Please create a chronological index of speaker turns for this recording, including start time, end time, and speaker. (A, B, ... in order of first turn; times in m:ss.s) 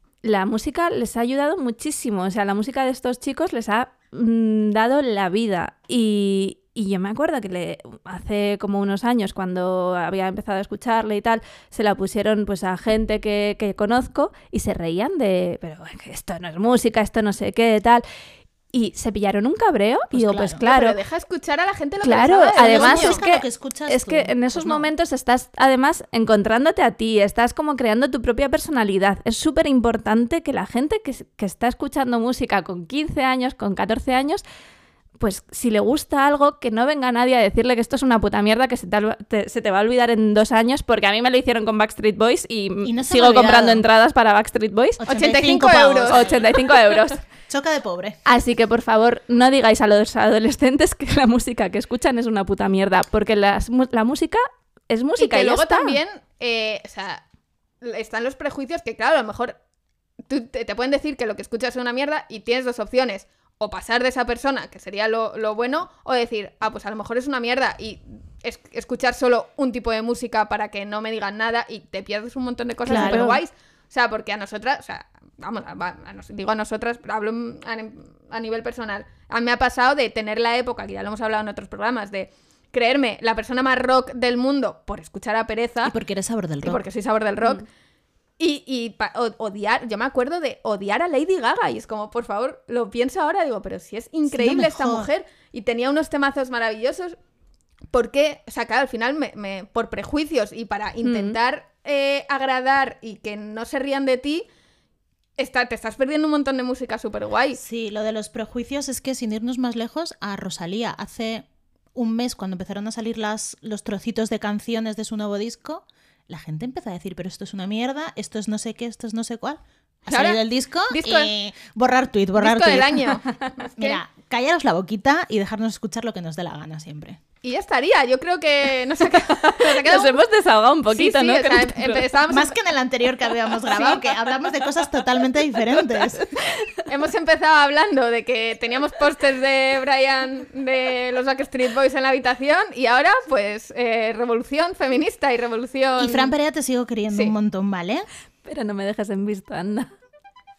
0:00.2-0:18.0 A
0:18.7-0:21.0 A
0:20.1-0:20.6 B
0:20.6-0:23.2 C
0:22.0-0:34.4 A
0:22.6-0:24.9 B
0:35.2-0:45.0 A
0:42.8-0:43.9 B
0:45.0-0:46.5 B
0:45.0-0:46.5 C
0:46.1-0:47.2 A
0:47.5-0:48.2 B
0:48.3-0:56.0 A
0:55.2-0:57.2 C
0:57.8-0:59.6 C
1:00.3-1:25.9 C
1:12.9-1:13.4 B
1:12.9-1:13.4 A
1:25.8-1:26.8 B
1:26.6-1:27.7 C
1:28.4-1:37.2 C
1:34.3-1:35.1 B
1:37.9-1:44.5 C
1:41.0-1:41.4 A
1:45.4-1:47.6 C
1:47.5-2:03.2 B
2:00.1-2:00.4 C
2:00.9-2:01.3 C
2:02.4-2:04.0 C
2:03.8-2:07.2 B
2:07.4-2:10.2 C
2:09.2-2:12.1 A
2:10.9-2:12.6 C
2:12.3-2:16.2 B
2:13.6-2:14.1 C
2:16.8-2:26.3 C
2:26.0-2:28.1 B
2:28.4-2:29.9 A